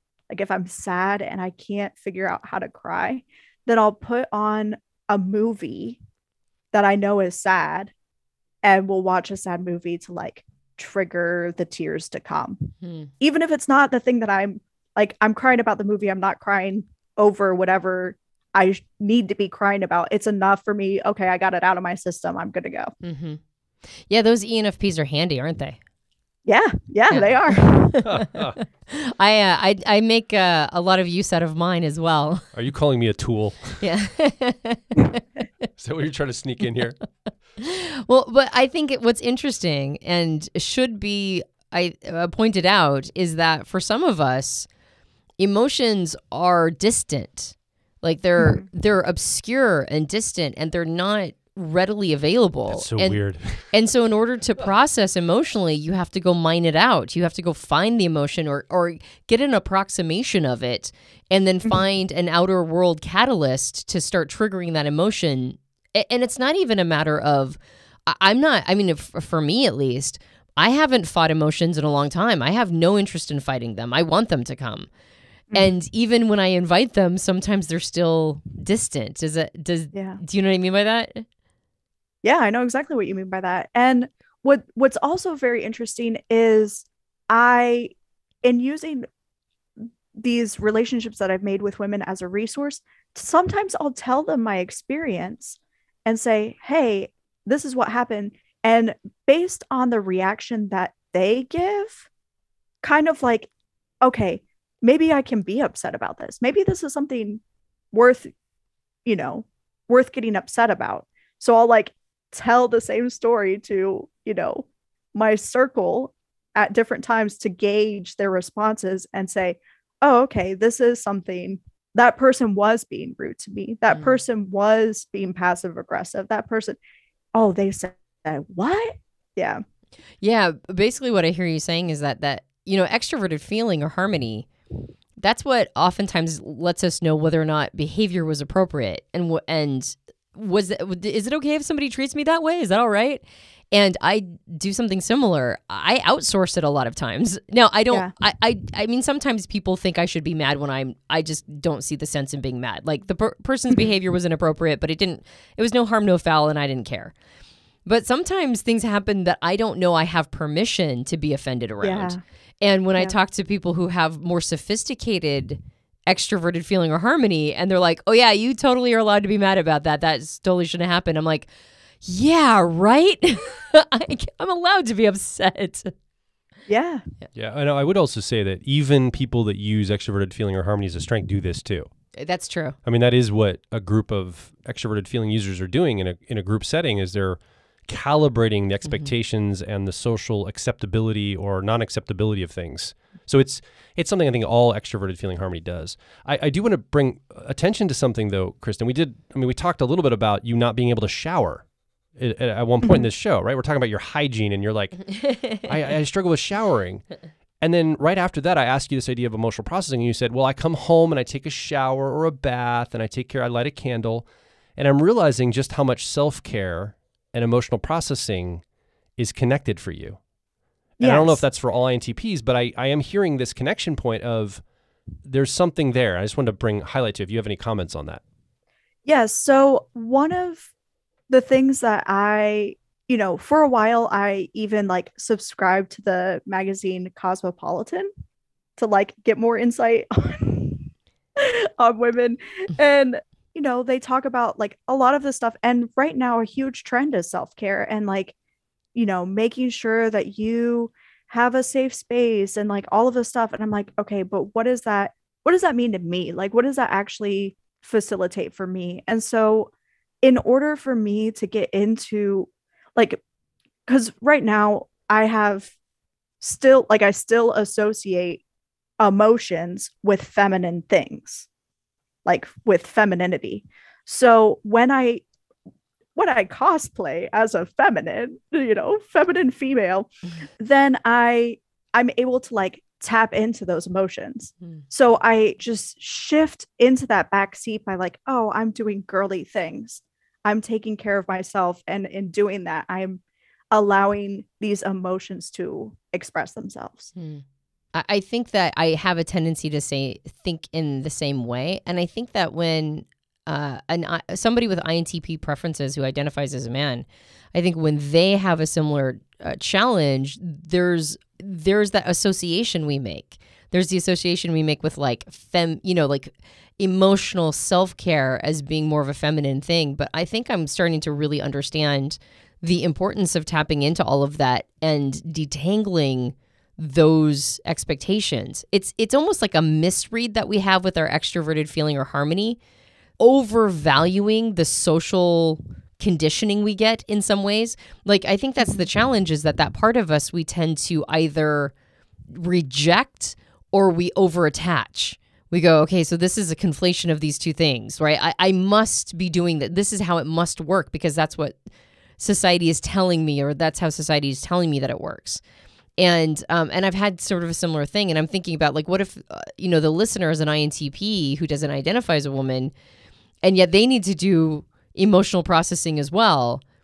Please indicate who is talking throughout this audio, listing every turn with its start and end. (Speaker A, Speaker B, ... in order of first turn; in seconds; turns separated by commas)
Speaker A: 0.3-6.0, Speaker A: 6.7-7.9, Speaker A: 8.6-22.9, Speaker B: 12.8-13.1, Speaker B: 23.0-23.4, Speaker B: 24.0-25.8, Speaker A: 26.4-28.0, Speaker B: 27.1-32.5, Speaker C: 28.1-28.6, Speaker C: 32.5-33.8, Speaker B: 33.8-35.2, Speaker C: 35.8-37.0, Speaker B: 37.6-44.7, Speaker B: 45.4-53.2, Speaker A: 48.4-48.7, Speaker C: 52.7-53.7, Speaker B: 53.7-74.9, Speaker B: 75.5-81.3, Speaker A: 79.9-80.2, Speaker A: 82.2-89.0, Speaker A: 89.8-102.1, Speaker A: 102.8-103.5, Speaker A: 104.0-107.4, Speaker A: 107.9-108.3, Speaker A: 109.0-126.8, Speaker B: 123.9-124.2, Speaker A: 127.3-129.6, Speaker B: 130.2-134.5, Speaker B: 135.2-157.1, Speaker B: 157.9-171.5, Speaker A: 161.8-162.2, Speaker B: 172.0-175.9, Speaker A: 176.7-177.0, Speaker C: 177.3-181.9, Speaker B: 182.2-182.8, Speaker C: 182.8-201.6, Speaker B: 188.8-189.1, Speaker C: 202.2-207.1, Speaker B: 205.1-205.7, Speaker C: 207.6-214.3, Speaker C: 214.8-218.6, Speaker C: 219.2-220.2, Speaker C: 221.0-224.6, Speaker A: 221.0-221.4, Speaker C: 225.2-228.2, Speaker A: 229.1-230.7, Speaker A: 231.3-238.1, Speaker A: 238.8-248.3, Speaker A: 248.9-259.7, Speaker A: 260.2-263.2, Speaker A: 263.9-265.8, Speaker A: 266.4-268.4, Speaker A: 269.0-271.5, Speaker A: 272.2-275.2, Speaker A: 276.1-297.1, Speaker B: 297.2-332.6, Speaker B: 333.2-341.7, Speaker A: 338.6-338.9, Speaker B: 342.3-351.6, Speaker B: 352.2-355.4, Speaker B: 356.0-362.7, Speaker B: 363.4-366.6